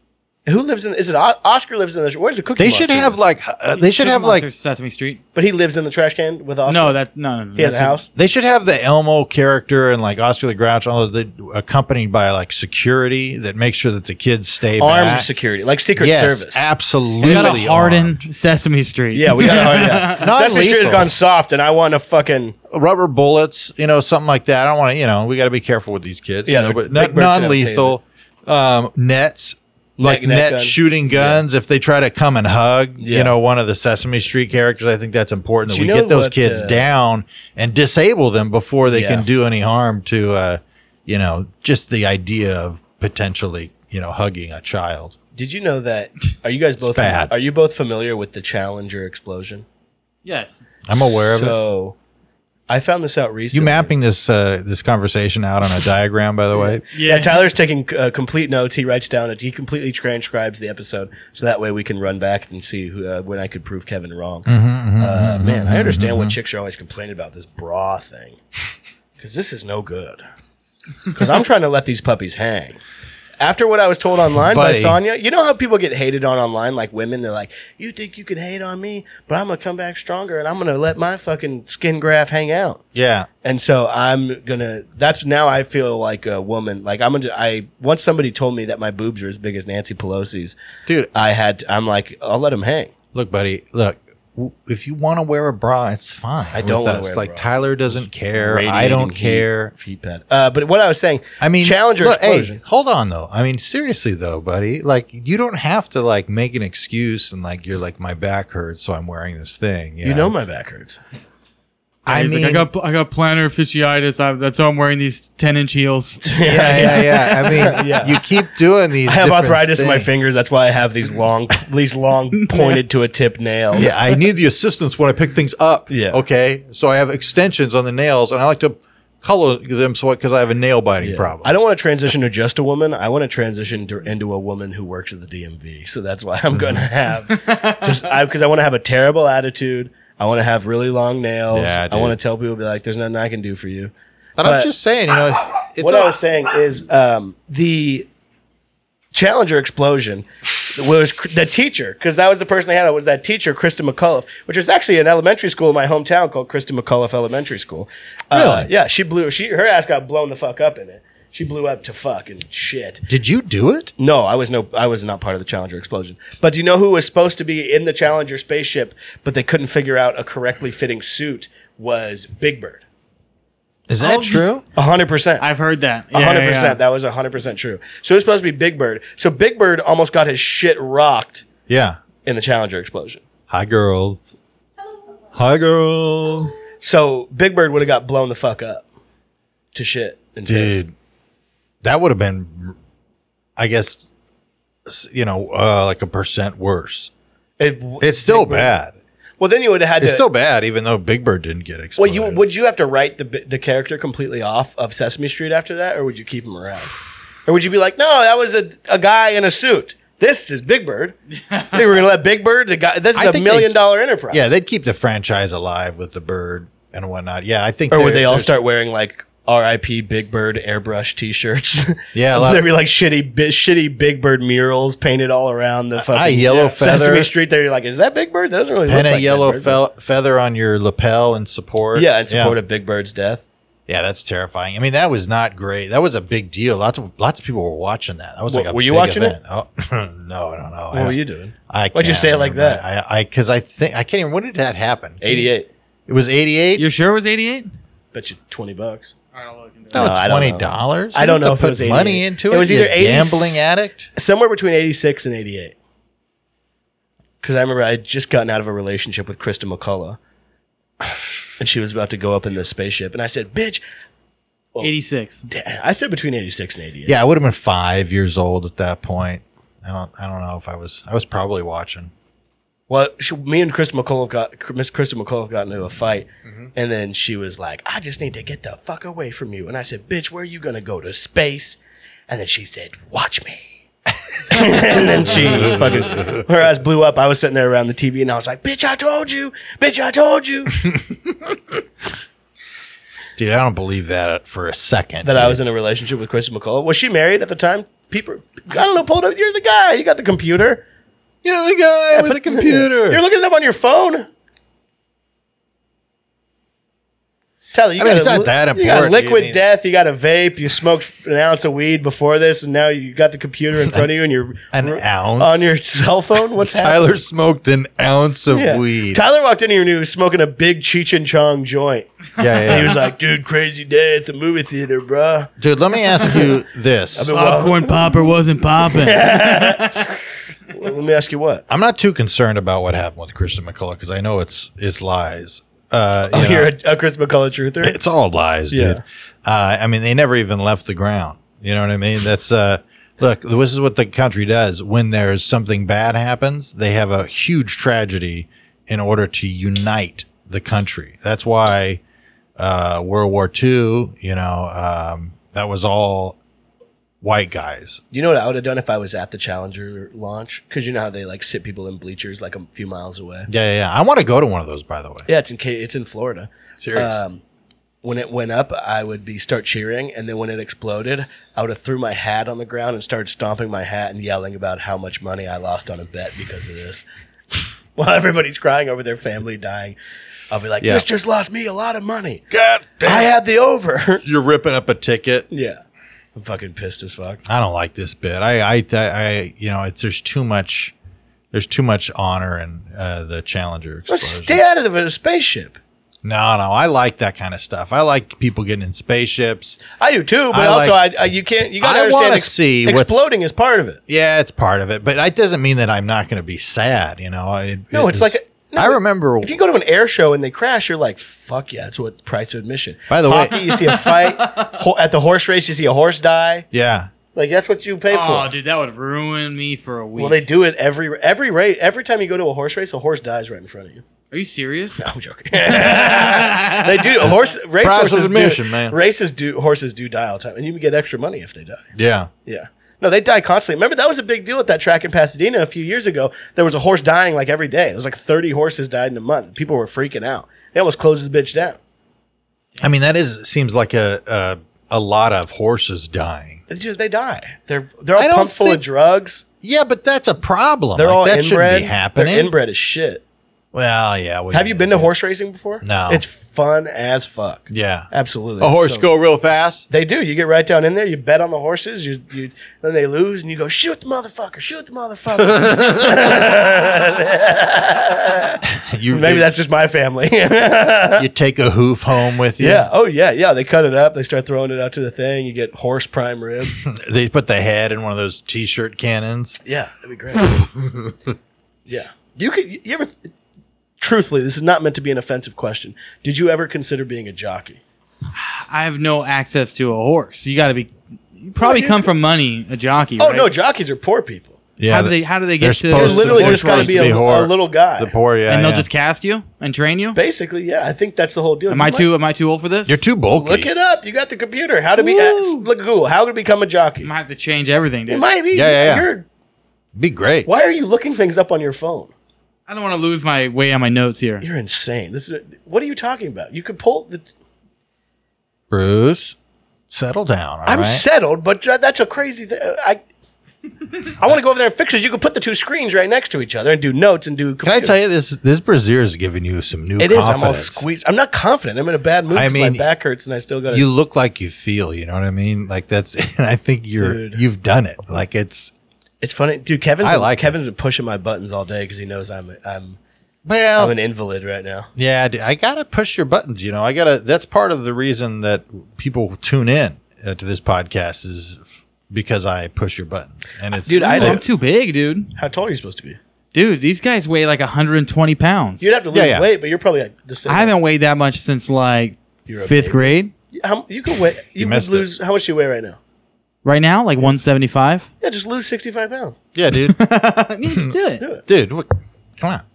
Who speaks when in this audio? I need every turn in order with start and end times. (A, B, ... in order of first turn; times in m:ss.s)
0:00.5-0:03.2 A
0:02.6-0:04.5 B
0:03.8-0:05.2 C
0:05.4-0:07.0 A
0:06.7-0:08.0 C
0:07.6-0:08.1 A
0:08.2-0:15.3 B
0:14.8-0:16.6 A
0:16.0-0:18.2 B
0:17.2-0:20.3 C
0:17.2-0:17.5 A
0:19.1-0:22.6 A
0:20.1-0:21.1 B
0:22.7-0:45.2 B
0:26.5-0:28.0 A
0:30.0-0:31.4 A
0:33.0-0:33.3 A
0:35.7-0:36.9 A
0:38.9-0:39.3 A
0:45.4-0:49.6 A
0:46.8-0:47.3 B
0:50.2-0:50.6 C
0:50.9-0:51.6 B
0:51.0-0:52.0 A
0:52.7-0:53.9 A
0:53.5-0:56.8 B
0:56.6-1:08.4 A
0:56.9-0:57.4 C
1:04.5-1:06.4 B
1:09.2-1:10.2 A
1:11.1-1:12.8 A
1:13.4-1:22.8 A
1:14.4-1:15.0 B
1:23.0-1:23.3 B
1:23.4-1:30.6 A
1:31.1-1:32.9 A
1:33.1-1:39.7 B
1:36.5-1:42.6 A
1:41.4-1:50.3 B
1:50.0-1:51.0 A
1:52.0-1:52.7 B
1:52.1-1:57.1 C
1:56.2-1:58.2 A
1:56.4-2:00.1 B
1:59.0-2:03.9 A
2:02.4-2:02.8 C
2:03.8-2:11.6 B
2:05.9-2:06.2 A
2:11.0-2:24.7 A
2:17.4-2:17.9 C
2:21.5-2:22.2 B
2:24.4-2:26.2 B
2:25.8-2:28.1 A
2:29.1-2:43.0 A
2:38.3-2:38.7 B
2:43.1-2:43.9 B
2:44.0-2:52.8 A
2:53.9-2:54.6 B
2:54.0-2:54.4 C
2:54.8-2:55.5 A
2:55.4-2:56.8 C
2:56.1-3:01.5 A
3:01.7-3:02.0 B
3:02.2-3:03.2 A
3:03.5-3:04.2 B
3:05.3-3:06.5 B
3:06.8-3:08.8 A
3:09.7-3:10.8 A
3:10.5-3:10.9 B
3:11.8-3:12.8 B
3:13.6-3:14.0 B
3:14.9-3:17.1 B
3:17.6-3:18.7 A
3:18.0-3:18.9 B
3:19.4-3:20.2 A
3:20.0-3:22.4 B
3:22.0-3:31.2 A
3:31.5-3:31.8 C
3:31.7-3:34.5 A
3:33.2-3:33.8 B
3:34.3-3:38.5 B
3:37.9-3:49.8 A
3:42.1-3:42.6 B
3:46.0-3:47.3 B
3:48.9-3:52.6 B
3:52.0-3:53.4 A
3:53.9-4:01.2 B
3:58.5-3:59.4 A
4:00.9-4:02.8 A
4:01.7-4:05.5 B
4:05.2-4:05.7 A
4:06.1-4:06.9 B
4:06.8-4:07.7 C
4:08.1-4:09.1 A
4:09.3-4:10.1 C
4:09.9-4:14.1 B
4:10.0-4:15.8 A
4:17.4-4:20.2 A
4:21.6-4:23.8 A
4:24.8-4:25.5 C
4:25.5-4:27.2 A
4:27.1-4:32.1 B
4:32.9-4:43.7 A
4:44.5-4:50.8 A
4:44.5-4:46.4 B
4:50.9-4:51.6 B
4:53.4-4:55.6 B
4:55.2-5:00.8 A
5:01.4-5:03.2 B
5:02.1-5:04.3 A
5:07.7-5:17.2 A
5:08.0-5:09.6 B
5:14.7-5:15.7 B
5:16.5-5:19.2 B
5:18.5-5:25.5 A
5:22.4-5:23.0 B
5:25.6-5:27.3 B
5:26.1-5:26.5 A
5:27.2-5:28.2 A
5:27.3-5:30.1 C
5:28.8-5:30.2 A
5:30.7-5:31.6 A
5:31.7-5:36.7 B
5:36.3-5:38.0 A
5:37.8-5:52.0 B
5:38.7-5:39.0 A
5:52.6-5:56.4 B
5:57.2-5:58.0 B
5:58.1-6:03.5 A
6:03.5-6:05.3 B
6:05.3-6:07.4 A
6:06.8-6:07.2 B
6:08.0-6:17.0 A
6:18.0-6:20.0 A
6:20.5-6:22.4 A
6:22.5-6:23.3 B
6:23.0-6:24.2 A
6:24.2-6:25.5 B
6:25.5-6:25.8 A
6:26.4-6:27.4 A
6:27.5-6:30.9 B
6:31.5-6:34.6 B
6:34.1-6:35.8 A
6:36.2-6:39.8 B
6:40.0-6:44.0 A
6:40.5-6:41.0 B
6:41.8-6:43.2 B
6:44.1-6:49.6 B
6:47.9-6:56.7 A
6:53.1-6:53.7 B
6:53.7-6:54.8 C
6:56.7-6:57.1 B
6:57.3-6:58.5 A
6:58.1-7:00.4 C
7:00.2-7:04.0 A
7:04.3-7:05.0 C
7:05.0-7:11.9 A
7:05.7-7:06.7 C
7:07.8-7:09.0 B
7:12.0-7:12.3 B
7:12.5-7:21.8 A
7:22.8-7:26.6 B
7:26.7-7:29.4 A
7:28.2-7:28.8 B
7:29.6-7:32.5 B
7:31.0-7:33.2 A
7:33.7-7:35.1 B
7:34.5-7:39.1 A
7:35.8-7:36.2 B
7:37.7-7:38.1 B
7:38.6-7:39.9 B
7:39.9-7:51.3 A
7:45.6-7:46.2 B
7:48.8-7:49.5 B
7:51.2-7:52.9 B
7:52.6-7:56.8 A
7:56.8-7:59.6 B
7:59.6-8:00.6 A
8:00.4-8:01.4 B
8:01.9-8:03.3 A
8:04.0-8:07.8 A
8:08.4-8:13.5 C
8:11.6-8:12.1 A
8:13.2-8:14.6 A
8:14.8-8:18.9 B
8:14.9-8:17.3 C
8:15.9-8:18.1 A
8:18.5-8:20.2 C
8:20.1-8:22.1 A
8:21.7-8:23.0 C
8:22.9-8:23.7 B
8:23.3-8:27.1 A
8:27.0-8:28.3 C
8:28.1-8:29.3 A
8:28.5-8:29.1 B
8:30.0-8:30.5 B
8:30.5-8:32.1 A
8:32.7-8:34.4 C
8:34.4-8:37.3 A
8:38.7-8:39.4 B
8:39.9-8:41.0 B
8:40.7-8:43.0 A
8:44.2-8:48.0 A
8:47.6-8:50.8 B
8:50.0-8:53.9 A
8:52.3-8:52.9 B
8:53.7-8:58.7 B
8:57.0-8:57.4 A
8:59.2-9:03.0 A
9:00.0-9:00.6 B
9:03.5-9:03.9 B
9:03.8-9:04.9 A
9:05.0-9:14.4 B
9:13.8-9:14.5 A
9:13.9-9:15.3 C
9:15.4-9:16.2 A
9:16.5-9:18.9 C
9:18.8-9:20.7 A
9:19.1-9:19.5 B
9:20.5-9:23.3 C
9:22.5-9:26.0 A
9:24.6-9:25.1 B
9:26.6-9:28.1 C
9:28.2-9:29.4 A
9:29.6-9:30.0 B
9:29.7-9:31.2 C
9:30.7-9:30.9 B
9:31.5-9:32.6 B